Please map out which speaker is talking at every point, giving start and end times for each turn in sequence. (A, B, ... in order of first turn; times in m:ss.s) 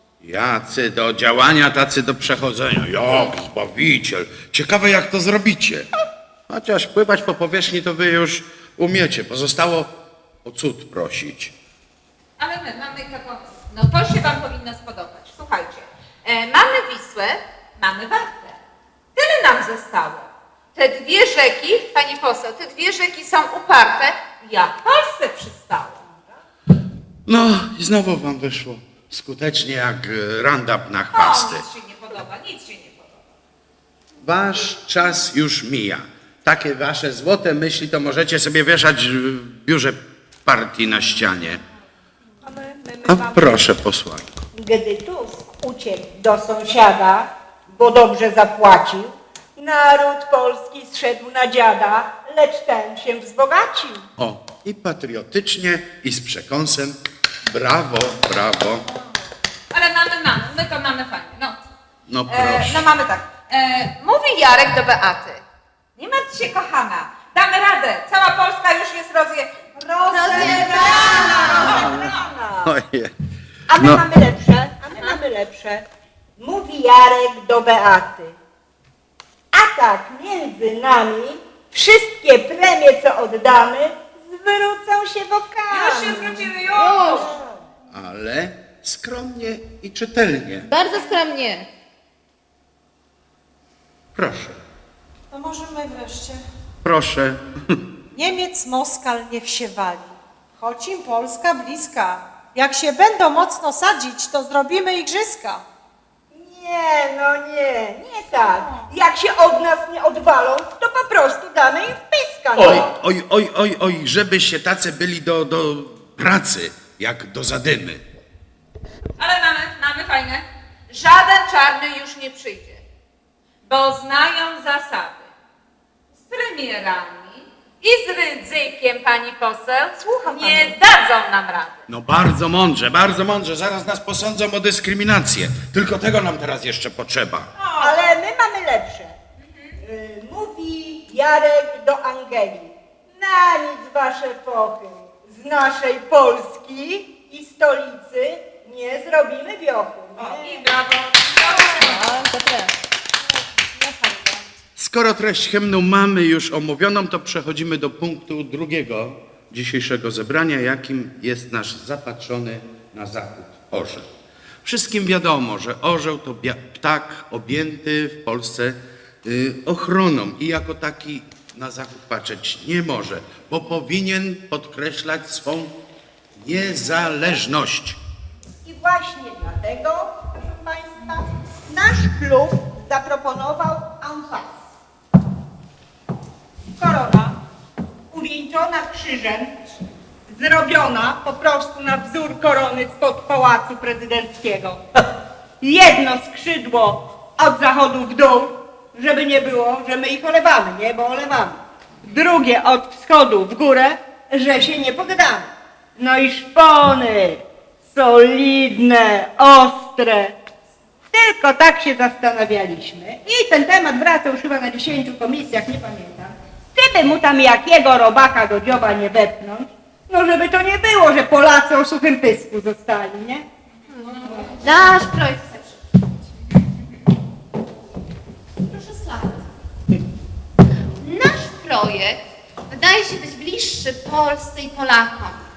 0:00.2-0:05.9 A
0:06.5-0:09.9 A
0:10.4-0:11.5 A
0:12.4-0:18.6 B
0:19.2-0:26.0 B
0:26.0-0:26.4 C
0:27.3-0:31.6 A
0:31.1-0:33.2 B
0:34.2-0:41.6 A
0:42.4-0:43.7 C
0:43.1-0:44.4 A
0:44.5-0:54.0 C
0:54.2-0:58.8 A
0:59.7-1:01.6 B
1:02.1-1:02.9 A
1:02.3-1:05.4 B
1:06.0-1:09.7 B
1:09.8-1:12.7 C
1:10.1-1:11.7 D
1:10.4-1:12.2 B
1:11.6-1:13.1 A
1:13.7-1:15.8 C
1:13.8-1:14.0 A
1:16.4-1:18.4 C
1:19.5-1:26.5 C
1:25.7-1:27.3 B
1:26.8-1:27.3 D
1:27.9-1:30.7 A
1:30.6-1:31.7 D
1:34.1-1:34.6 A
1:35.3-1:36.4 E
1:36.8-1:37.8 A
1:38.1-1:45.6 E
1:46.3-1:52.9 C
1:52.6-1:58.0 A
1:59.2-2:02.8 B
2:03.6-2:05.3 B
2:06.2-2:11.8 B
2:10.2-2:10.8 C
2:11.9-2:17.5 A
2:17.6-2:18.1 B
2:17.8-2:19.1 C
2:19.8-2:30.7 C
2:30.2-2:32.0 B
2:31.6-2:32.7 D
2:33.5-2:34.5 E
2:34.8-2:44.1 A
2:44.6-2:55.7 A
2:56.4-2:58.0 A
2:58.6-3:04.6 C
3:06.8-3:07.4 C
3:08.1-3:09.6 C
3:10.3-3:14.8 C
3:15.6-3:30.4 C
3:31.1-3:43.4 C
3:44.1-3:45.7 D
3:48.6-3:49.4 D
3:51.0-3:55.4 D